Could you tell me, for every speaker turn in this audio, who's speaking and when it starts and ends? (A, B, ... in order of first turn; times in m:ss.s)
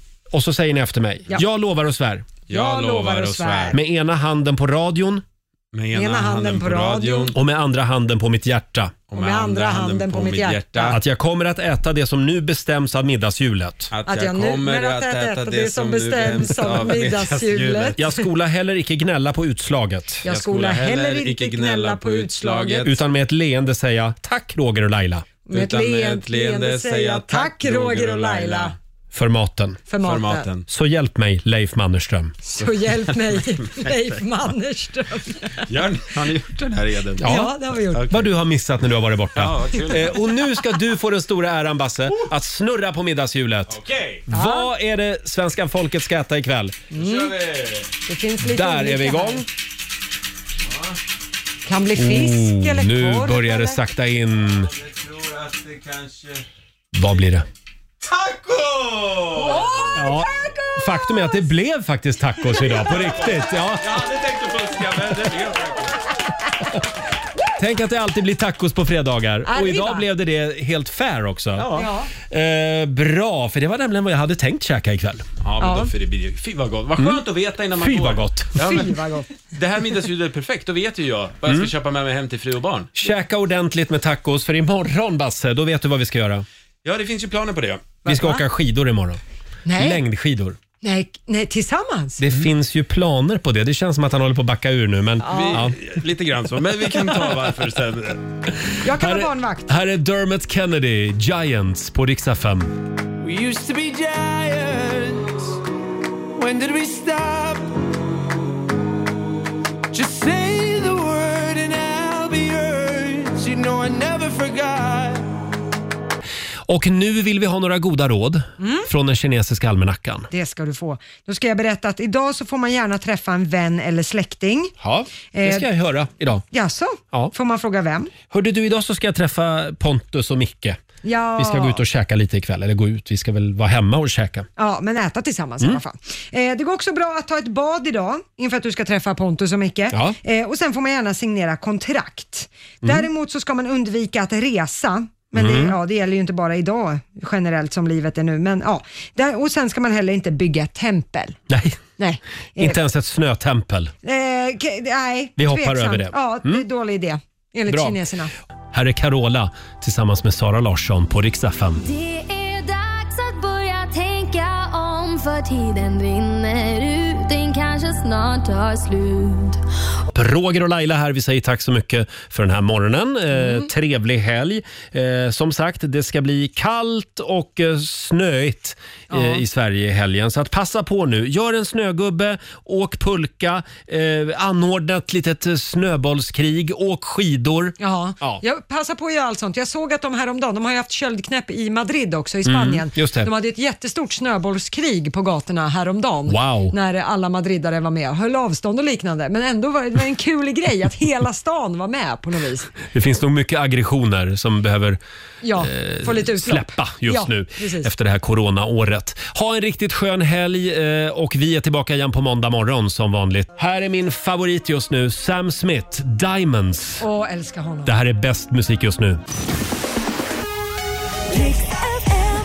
0:00.3-0:02.3 A
0:02.5-0:03.8 B
0:02.5-0:03.8 C
0:03.7-0:05.2 A
0:05.7-0:07.4 B
0:05.9-0:07.4 C
0:07.3-0:09.0 A
0:09.1-0:11.0 B
0:09.2-0:11.0 C
0:10.9-0:13.9 A
0:13.9-0:18.0 B
0:14.1-0:18.2 C
0:18.0-0:20.2 A
0:20.2-0:22.9 C
0:20.3-0:22.9 B
0:22.8-0:25.3 A
0:25.5-0:28.7 C
0:25.5-0:28.7 B
0:29.1-0:29.8 A
0:29.9-0:30.5 C
0:30.0-0:30.6 B
0:30.7-0:32.4 A
0:32.5-0:35.6 C
0:35.7-0:37.3 B
0:37.2-0:37.5 A
0:37.2-0:38.1 C
0:37.9-0:38.3 B
0:38.1-0:46.7 A
0:39.4-0:40.2 B
0:43.7-0:44.2 B
0:44.3-0:44.7 C
0:46.9-0:47.4 C
0:46.9-0:47.9 B
0:48.1-0:49.4 C
0:48.4-0:49.5 A
0:50.7-0:51.0 B
0:51.6-0:53.8 C
0:52.0-0:54.7 A
0:54.7-0:56.4 B
0:56.9-0:57.4 A
0:58.0-0:59.8 B
0:59.4-1:01.3 C
0:59.9-1:03.9 A
1:02.7-1:06.0 B
1:07.6-1:11.7 A
1:09.5-1:10.0 C
1:11.6-1:11.9 B
1:11.7-1:12.1 C
1:12.3-1:15.3 A
1:15.4-1:18.9 B
1:15.6-1:15.9 C
1:17.8-1:18.6 A
1:18.6-1:19.3 C
1:19.5-1:22.9 B
1:21.4-1:21.7 A
1:22.9-1:26.4 A
1:26.8-1:28.0 B
1:28.0-1:28.4 C
1:28.0-1:29.2 A
1:29.6-1:30.0 C
1:29.7-1:30.6 A
1:30.8-1:32.2 C
1:32.2-1:35.7 A
1:35.2-1:35.7 C
1:35.3-1:38.2 B
1:38.8-1:39.7 C
1:38.9-1:42.8 A
1:50.7-1:51.2 D
1:52.0-1:54.4 D
1:56.7-2:00.3 A
1:58.6-1:58.9 C
2:00.3-2:04.7 C
2:04.8-2:06.4 A
2:05.3-2:05.6 C
2:06.5-2:08.1 C
2:08.3-2:10.8 A
2:11.0-2:11.8 C
2:11.4-2:14.5 A
2:14.6-2:31.4 C
2:19.9-2:20.2 A
2:25.4-2:25.8 A
2:31.5-2:31.8 A
2:32.0-2:32.8 C
2:32.6-2:33.9 A
2:34.0-2:38.3 C
2:35.4-2:36.6 A
2:37.7-2:38.0 A
2:38.7-2:41.8 A
2:41.8-2:49.6 E
2:50.1-3:08.4 A
2:59.1-2:59.4 C
3:07.8-3:22.7 C
3:12.4-3:13.3 A
3:16.3-3:16.7 A
3:22.9-3:25.0 A
3:25.4-3:27.9 C
3:25.6-3:37.1 A
3:37.0-3:37.9 C
3:37.8-3:39.2 A
3:41.3-3:42.3 C